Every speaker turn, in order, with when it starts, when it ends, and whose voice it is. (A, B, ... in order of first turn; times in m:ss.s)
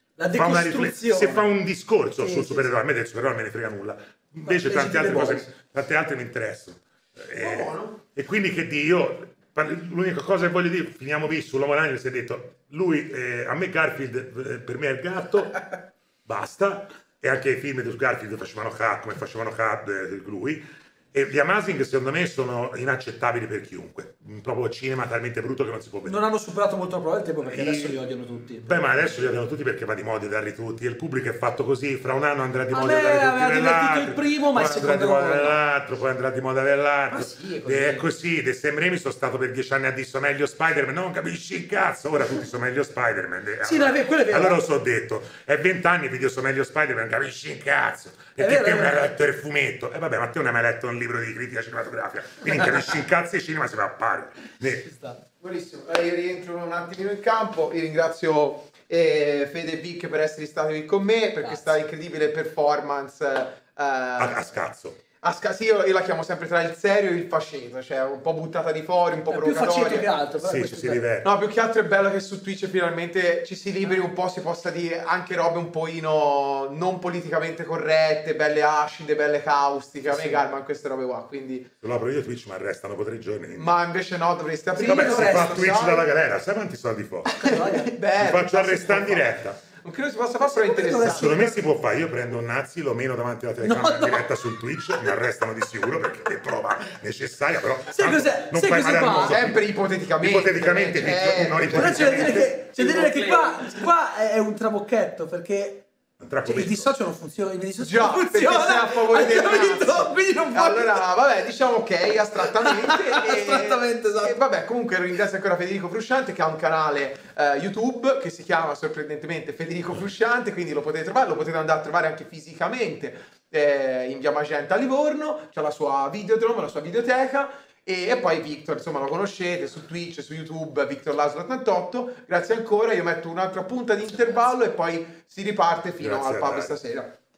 0:00.2-0:01.5 A
0:00.3-0:26.2 B
0:02.2-0:02.7 A
0:04.4-0:05.5 A
0:07.4-0:08.0 C
0:26.0-0:28.9 A
0:27.4-0:28.0 B
0:28.6-0:54.8 B
0:32.7-0:35.6 A
0:37.1-0:38.1 A
0:43.6-0:44.6 A
0:48.4-0:49.1 A
0:54.8-0:55.2 A
0:55.4-1:04.5 C
1:01.4-1:01.7 A
1:04.2-1:05.0 B
1:05.2-1:10.1 C
1:09.3-1:11.0 A
1:10.4-1:11.3 B
1:11.2-1:21.7 C
1:20.1-1:20.4 A
1:21.8-1:23.7 B
1:23.6-1:26.1 C
1:24.7-1:25.6 A
1:24.9-1:27.4 B
1:27.3-1:28.0 A
1:27.4-1:31.6 C
1:28.2-1:29.6 B
1:30.5-1:31.6 A
1:31.0-1:39.6 B
1:33.6-1:34.3 A
1:37.9-1:39.4 A
1:39.1-1:43.8 C
1:40.2-1:42.5 B
1:41.7-1:45.8 A
1:46.2-1:46.9 B
1:46.4-1:51.0 A
1:47.8-2:17.1 C
1:52.5-1:54.4 A
2:16.0-2:16.7 B